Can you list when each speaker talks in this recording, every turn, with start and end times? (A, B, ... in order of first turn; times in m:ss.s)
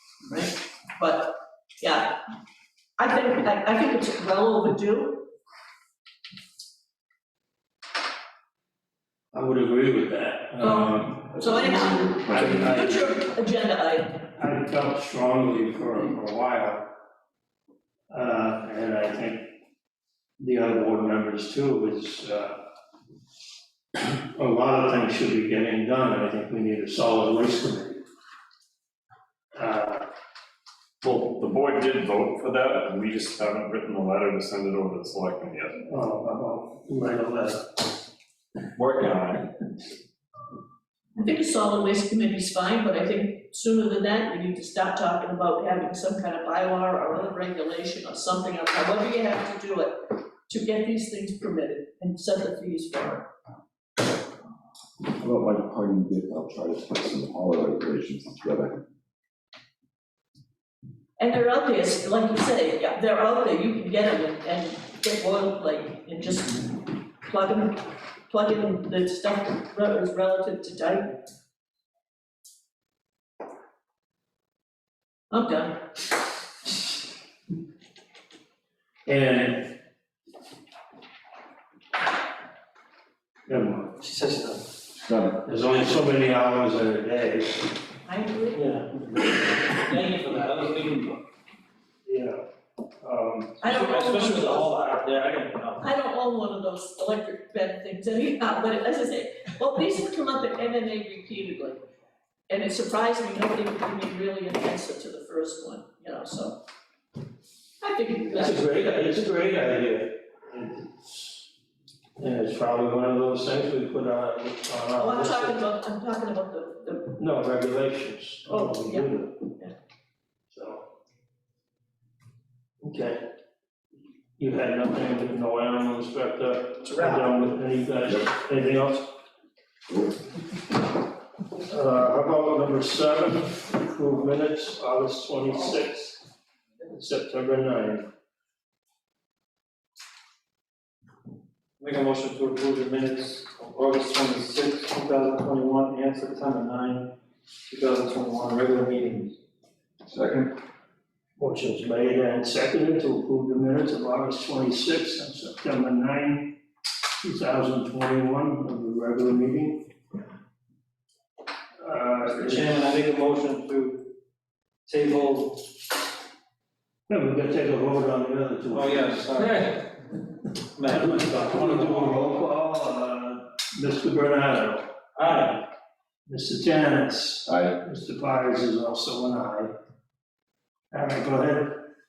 0:00.2-0:02.2 A
0:03.0-0:05.3 A
0:09.3-0:13.2 B
0:10.6-0:14.2 A
0:14.4-0:16.9 B
0:18.1-0:19.5 B
0:20.4-0:22.6 B
0:24.0-0:28.0 B
0:29.5-0:30.0 B
0:31.0-0:35.8 C
0:35.8-0:37.7 B
0:38.8-0:39.4 C
0:41.2-0:53.2 A
0:55.1-0:58.8 D
1:01.2-1:11.2 A
1:15.3-1:15.8 A
1:19.0-1:19.7 B
1:23.5-1:24.0 B
1:24.0-1:24.6 E
1:25.0-1:25.4 D
1:25.4-1:27.8 B
1:28.0-1:28.6 A
1:28.6-1:31.2 E
1:32.0-1:32.4 B
1:33.0-1:33.6 B
1:33.6-1:34.7 A
1:33.6-1:35.8 E
1:35.8-1:41.8 A
1:42.5-1:46.6 A
1:47.8-1:48.7 A
1:48.3-1:51.5 B
1:52.2-1:55.6 B
1:55.0-1:57.1 A
1:57.2-1:59.3 B
1:58.4-1:59.7 A
2:00.5-2:00.8 B
2:02.8-2:03.2 B
2:04.4-2:09.1 B
2:06.8-2:07.2 E
2:11.6-2:16.2 B
2:16.8-2:18.0 B
2:21.8-2:27.1 E
2:27.7-2:29.3 E
2:30.0-2:30.5 D
2:31.4-2:36.5 B
2:37.2-2:39.8 B
2:41.8-2:42.9 B
2:42.2-2:44.0 E
2:44.8-2:45.6 E
2:47.1-2:49.7 B
2:48.7-2:49.9 E
2:50.7-2:52.3 E
2:50.9-2:54.9 B
2:55.2-2:55.6 E
2:56.3-2:59.7 B
2:57.5-2:57.7 D
3:00.9-3:01.8 B